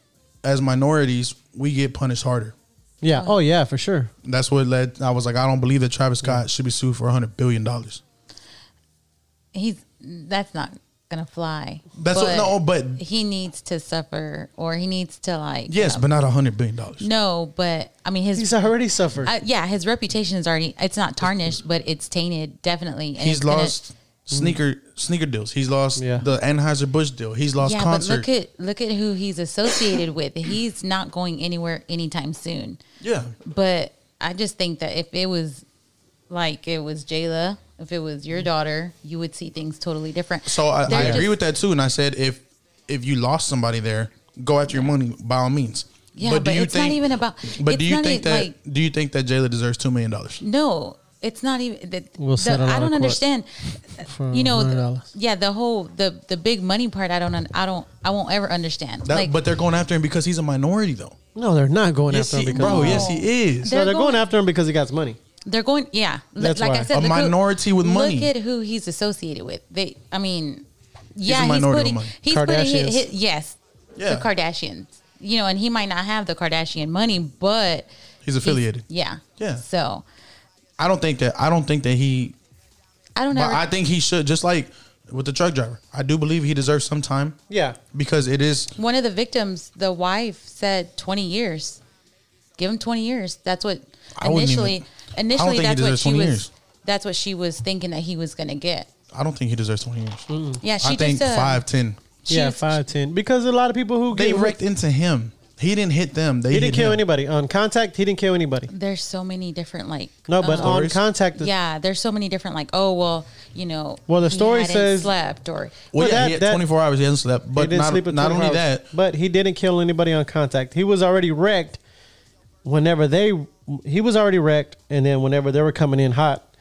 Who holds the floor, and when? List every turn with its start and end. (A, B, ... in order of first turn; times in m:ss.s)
0:00.4-0:02.6 A
0:03.0-0:04.1 B
0:04.2-0:08.0 A
0:09.5-0:16.0 C
0:12.0-0:13.0 A
0:15.7-0:17.0 A
0:17.0-0:18.6 C
0:18.4-0:19.3 B
0:19.2-0:23.8 C
0:23.2-0:28.3 A
0:24.3-0:24.6 B
0:26.0-0:26.2 B
0:27.6-0:32.8 C
0:33.0-0:33.4 A
0:33.5-0:35.6 C
0:36.3-0:41.3 C
0:40.5-0:50.4 A
0:40.9-0:41.2 B
0:46.2-0:48.5 C
0:50.4-0:59.3 C
0:52.2-0:53.2 B
0:54.0-0:55.1 B
0:59.0-1:01.2 A
1:01.4-1:03.1 B
1:02.1-1:03.7 A
1:02.6-1:04.3 C
1:03.6-1:05.2 B
1:05.4-1:17.9 C
1:06.4-1:06.9 B
1:06.9-1:08.3 A
1:11.2-1:12.1 A
1:12.3-1:13.0 B
1:14.0-1:14.3 A
1:18.2-1:19.6 A
1:18.4-1:20.0 C
1:20.8-1:22.4 A
1:23.2-1:23.6 C
1:23.3-1:27.4 A
1:27.5-1:27.8 B
1:27.9-1:28.7 A
1:28.8-1:31.8 C
1:32.6-1:38.9 C
1:34.2-1:34.8 A
1:35.4-1:36.5 A
1:39.1-1:40.3 A
1:40.3-1:40.6 B
1:40.6-1:41.6 C
1:40.8-1:42.0 A
1:42.3-1:42.8 C
1:42.3-1:44.6 B
1:44.1-1:47.0 A
1:46.5-1:48.7 B
1:48.7-1:50.8 C
1:50.3-1:51.5 B
1:50.4-1:51.0 A
1:51.4-1:55.9 C
1:54.1-1:55.1 B
1:55.9-1:58.9 A
1:56.0-1:56.6 B
1:57.6-2:01.8 B
2:02.6-2:06.5 B